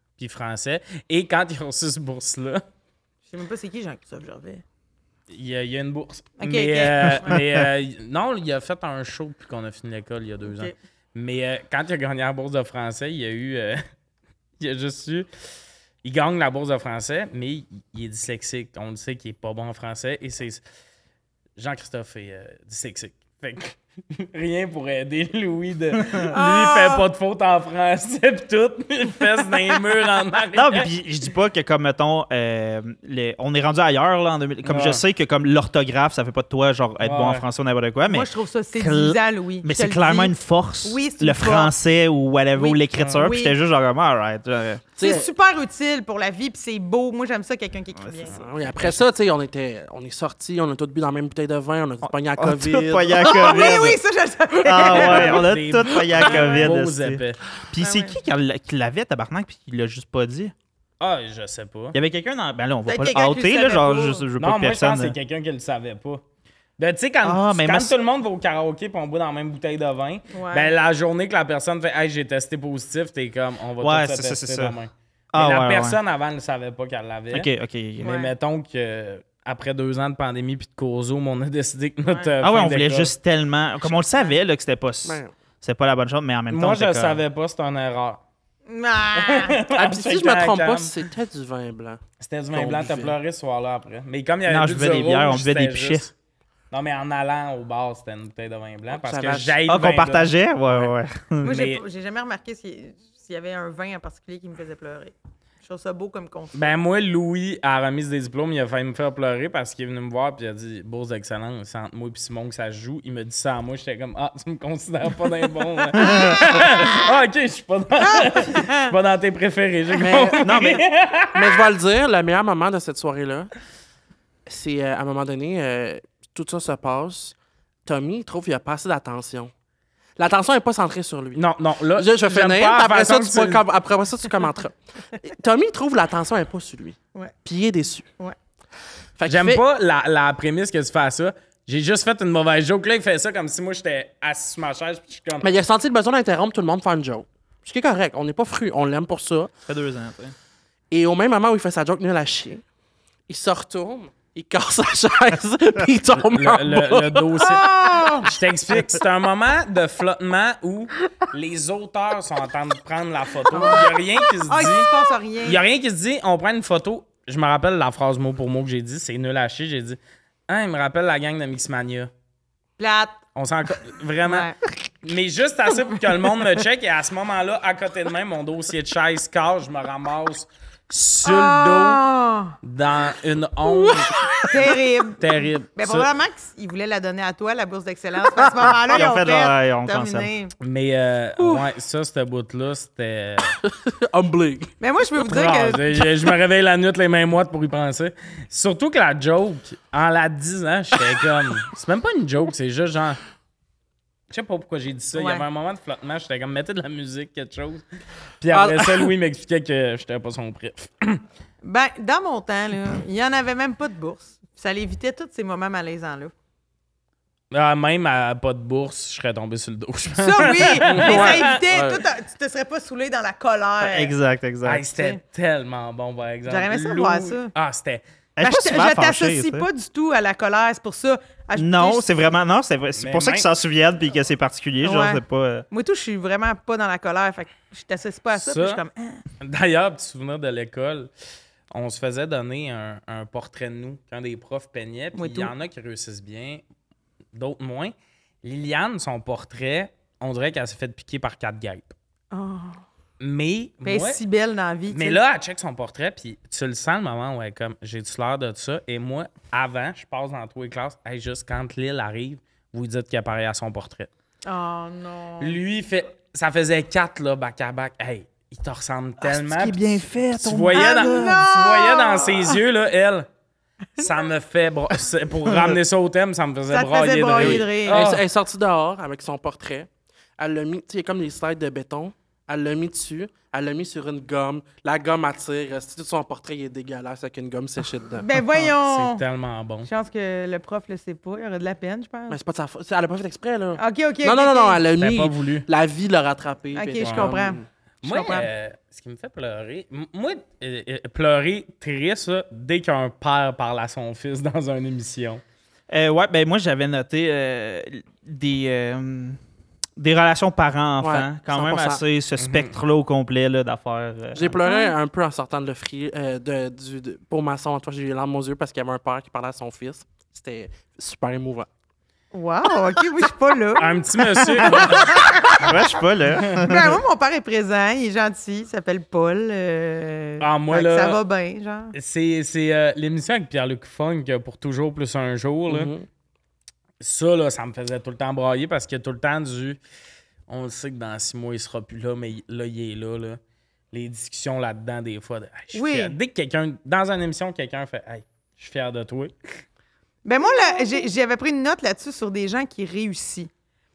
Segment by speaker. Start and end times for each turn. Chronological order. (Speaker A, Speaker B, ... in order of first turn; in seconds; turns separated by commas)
Speaker A: 0.2-2.6, Speaker B: 3.3-4.6, Speaker A: 5.3-13.8, Speaker B: 6.4-7.4, Speaker B: 10.4-10.8, Speaker A: 14.6-15.3, Speaker A: 16.0-20.6, Speaker A: 21.6-30.9, Speaker B: 26.3-27.1, Speaker C: 30.5-44.9, Speaker A: 34.6-35.0, Speaker A: 37.0-37.4, Speaker B: 38.0-41.7, Speaker B: 42.5-43.6, Speaker A: 43.0-43.2, Speaker D: 45.0-45.3, Speaker B: 45.0-48.4, Speaker C: 48.0-49.0, Speaker D: 48.3-53.8, Speaker C: 52.0-54.0, Speaker B: 53.2-55.5, Speaker C: 54.6-60.5, Speaker A: 54.9-57.4, Speaker B: 56.2-56.7, Speaker B: 57.8-58.2, Speaker A: 61.0-62.0, Speaker C: 61.9-65.2, Speaker B: 62.9-64.3, Speaker A: 64.4-66.2, Speaker A: 66.8-77.5, Speaker C: 67.2-68.0, Speaker B: 70.3-70.7, Speaker C: 73.8-74.8, Speaker C: 75.3-76.0, Speaker C: 77.3-78.1, Speaker A: 78.0-83.1, Speaker B: 78.0-78.3, Speaker B: 82.1-82.3, Speaker C: 82.4-87.2, Speaker D: 85.0-85.3, Speaker A: 86.5-88.2, Speaker B: 88.7-89.6, Speaker A: 89.2-90.9, Speaker D: 89.7-92.0, Speaker A: 92.2-96.1, Speaker D: 92.5-93.2, Speaker C: 94.5-96.1, Speaker A: 96.7-101.8, Speaker D: 98.9-99.6, Speaker C: 99.7-101.6, Speaker B: 101.4-106.7, Speaker A: 106.5-121.6, Speaker C: 116.0-116.3, Speaker B: 116.0-116.5, Speaker B: 118.0-118.9, Speaker D: 120.0-120.7, Speaker C: 120.4-120.8, Speaker D: 121.3-123.5, Speaker D: 124.5-127.3, Speaker D: 127.8-129.5, Speaker D: 130.2-131.4, Speaker A: 131.3-133.6, Speaker D: 132.0-138.1, Speaker D: 139.2-139.6, Speaker A: 139.3-145.5, Speaker D: 145.4-149.5, Speaker C: 149.7-150.3, Speaker D: 150.9-152.6, Speaker D: 153.3-157.5, Speaker A: 156.2-164.9, Speaker B: 157.4-158.3, Speaker B: 163.5-165.6, Speaker A: 165.4-172.1, Speaker B: 172.8-173.2, Speaker A: 173.3-174.5, Speaker B: 174.2-174.6, Speaker A: 175.0-182.0, Speaker B: 181.2-182.6, Speaker A: 182.6-186.1, Speaker B: 183.8-190.5, Speaker C: 188.7-190.3, Speaker A: 190.6-193.6, Speaker B: 191.4-191.6, Speaker D: 193.6-194.7, Speaker B: 194.8-196.3, Speaker A: 195.2-203.2, Speaker A: 204.3-207.8, Speaker B: 205.1-205.4, Speaker A: 208.4-211.2, Speaker D: 208.5-209.1, Speaker B: 211.6-216.3, Speaker A: 217.5-221.6, Speaker B: 220.1-224.1, Speaker D: 220.8-222.0, Speaker C: 223.8-224.9, Speaker A: 224.6-228.0, Speaker B: 224.9-225.2, Speaker B: 226.5-227.5, Speaker C: 228.4-229.7, Speaker B: 228.4-232.1, Speaker C: 231.6-235.7, Speaker A: 233.0-233.5, Speaker B: 234.8-239.2, Speaker A: 238.4-238.8, Speaker A: 239.4-241.1, Speaker A: 241.7-246.6, Speaker B: 245.2-245.5, Speaker A: 247.3-251.9, Speaker B: 252.3-252.8, Speaker A: 253.2-254.2, Speaker B: 253.8-255.2, Speaker A: 254.9-264.1, Speaker B: 264.4-265.6, Speaker A: 265.4-273.3, Speaker C: 269.2-271.4, Speaker B: 270.7-272.6, Speaker A: 274.0-278.2, Speaker C: 275.5-275.8, Speaker B: 276.7-278.0, Speaker D: 277.4-288.3, Speaker B: 288.2-289.2, Speaker A: 288.5-289.9, Speaker B: 289.9-292.4, Speaker D: 292.3-297.7, Speaker B: 293.8-294.8, Speaker A: 295.0-295.7, Speaker B: 296.7-298.5, Speaker A: 297.0-297.4, Speaker A: 298.0-305.4, Speaker C: 305.9-309.4, Speaker C: 310.0-314.6, Speaker D: 311.0-312.0, Speaker A: 312.4-312.8, Speaker D: 314.4-321.7, Speaker B: 314.6-314.9, Speaker B: 322.3-331.9, Speaker A: 323.8-325.2, Speaker C: 324.8-327.0, Speaker A: 330.4-331.2, Speaker A: 331.9-335.9, Speaker D: 335.7-336.1, Speaker A: 337.0-339.8, Speaker A: 340.5-343.4, Speaker A: 343.9-349.6, Speaker B: 345.7-346.2, Speaker B: 350.2-353.5